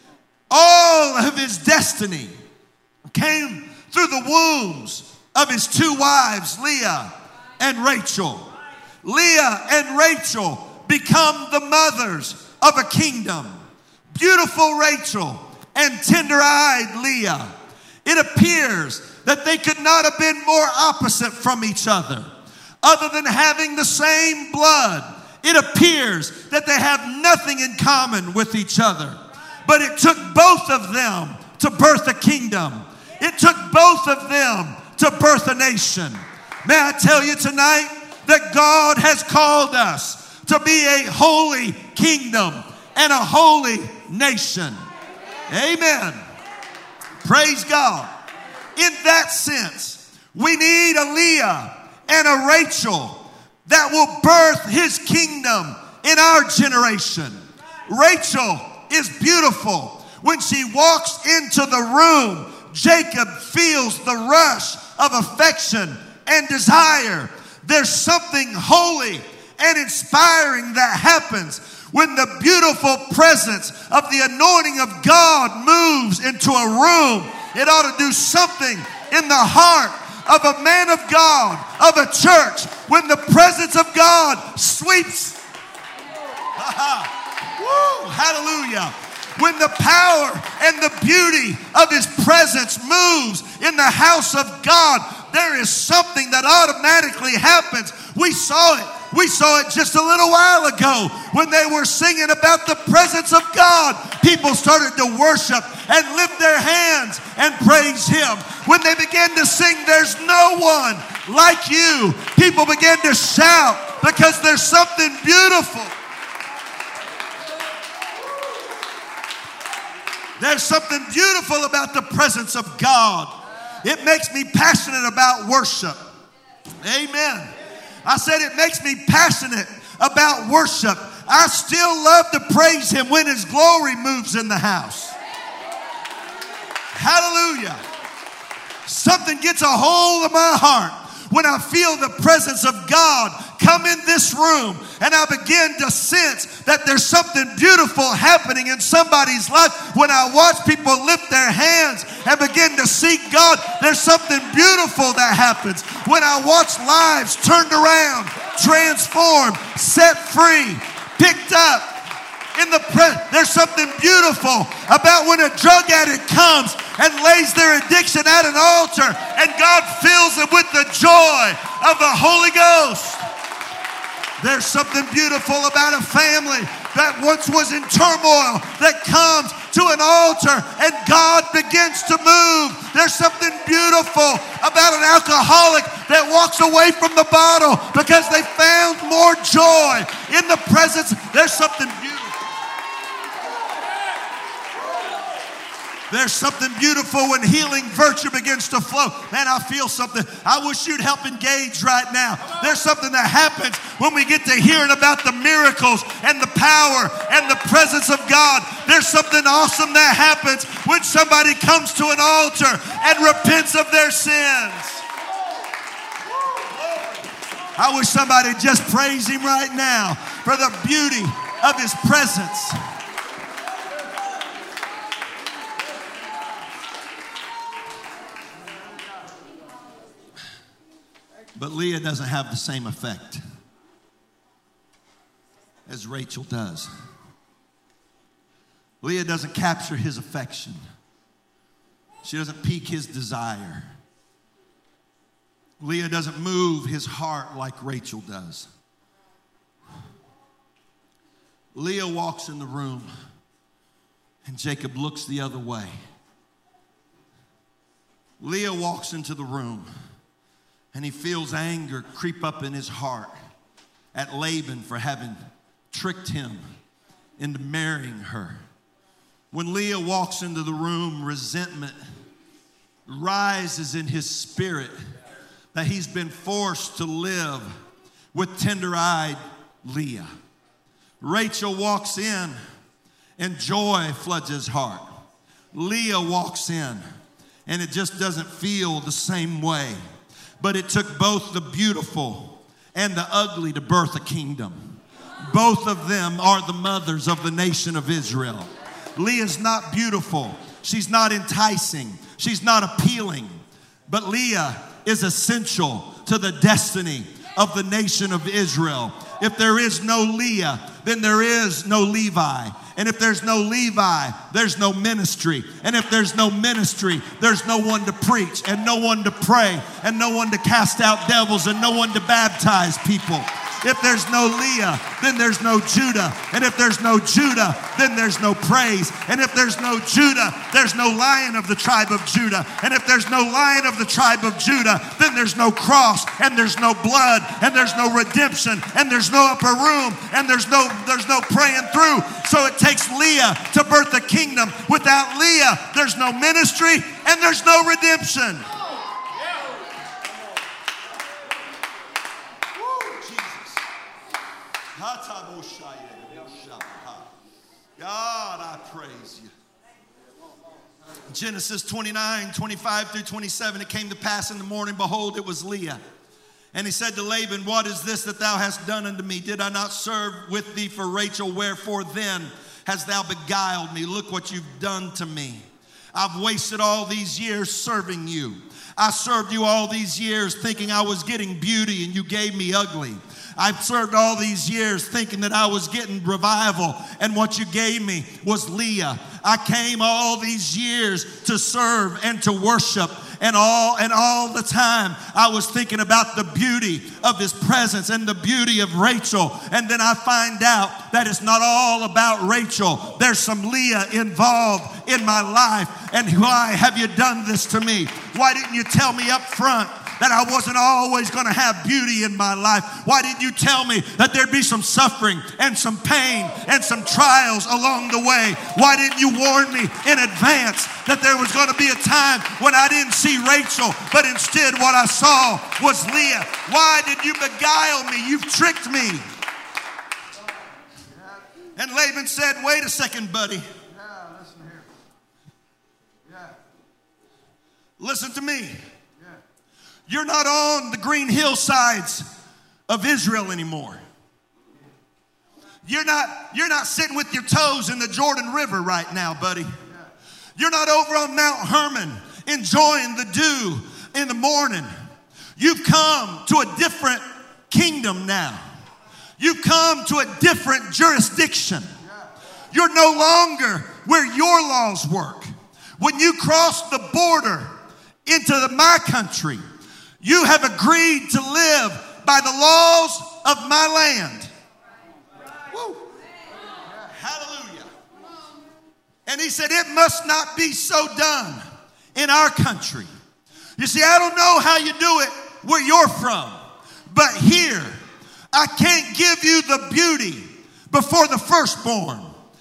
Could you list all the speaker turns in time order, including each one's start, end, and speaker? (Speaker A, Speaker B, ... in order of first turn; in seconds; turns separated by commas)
Speaker A: 0.5-2.3, Speaker A: 3.1-8.5, Speaker A: 9.0-13.6, Speaker A: 14.1-17.5, Speaker A: 18.0-22.3, Speaker A: 22.8-44.8, Speaker A: 45.5-46.2, Speaker A: 47.2-48.1, Speaker A: 48.8-85.4, Speaker A: 86.6-115.9, Speaker A: 120.4-126.0, Speaker A: 126.8-127.5, Speaker A: 128.0-135.1, Speaker A: 136.9-137.8, Speaker A: 138.8-173.2, Speaker A: 174.4-192.4, Speaker A: 196.1-215.0, Speaker A: 217.8-222.8, Speaker A: 231.6-233.4, Speaker A: 235.8-236.9, Speaker A: 239.0-240.8, Speaker A: 242.2-243.9, Speaker A: 245.8-248.7, Speaker A: 251.7-253.1, Speaker A: 254.4-255.9, Speaker A: 258.4-259.9, Speaker A: 260.9-263.3, Speaker A: 264.1-265.4, Speaker A: 265.9-266.6, Speaker A: 267.4-268.6, Speaker A: 269.5-272.0, Speaker A: 273.1-274.9, Speaker A: 275.7-277.7, Speaker A: 278.3-280.3, Speaker A: 281.2-282.6, Speaker A: 283.4-285.1, Speaker A: 285.7-287.0, Speaker A: 287.6-290.0, Speaker A: 290.6-348.7, Speaker A: 352.8-353.8, Speaker A: 354.9-357.3, Speaker A: 358.0-359.5, Speaker A: 361.3-366.0, Speaker A: 366.7-375.6, Speaker A: 376.1-429.2, Speaker A: 431.8-433.6, Speaker A: 438.0-438.8, Speaker A: 440.1-442.2, Speaker A: 442.9-444.0, Speaker A: 445.8-449.7, Speaker A: 450.6-454.9, Speaker A: 455.6-458.6, Speaker A: 459.4-461.9, Speaker A: 462.7-467.7, Speaker A: 468.2-469.6, Speaker A: 470.2-474.5, Speaker A: 475.7-476.0, Speaker A: 477.1-477.9, Speaker A: 479.3-481.6, Speaker A: 482.1-483.1, Speaker A: 483.8-488.0, Speaker A: 488.5-492.3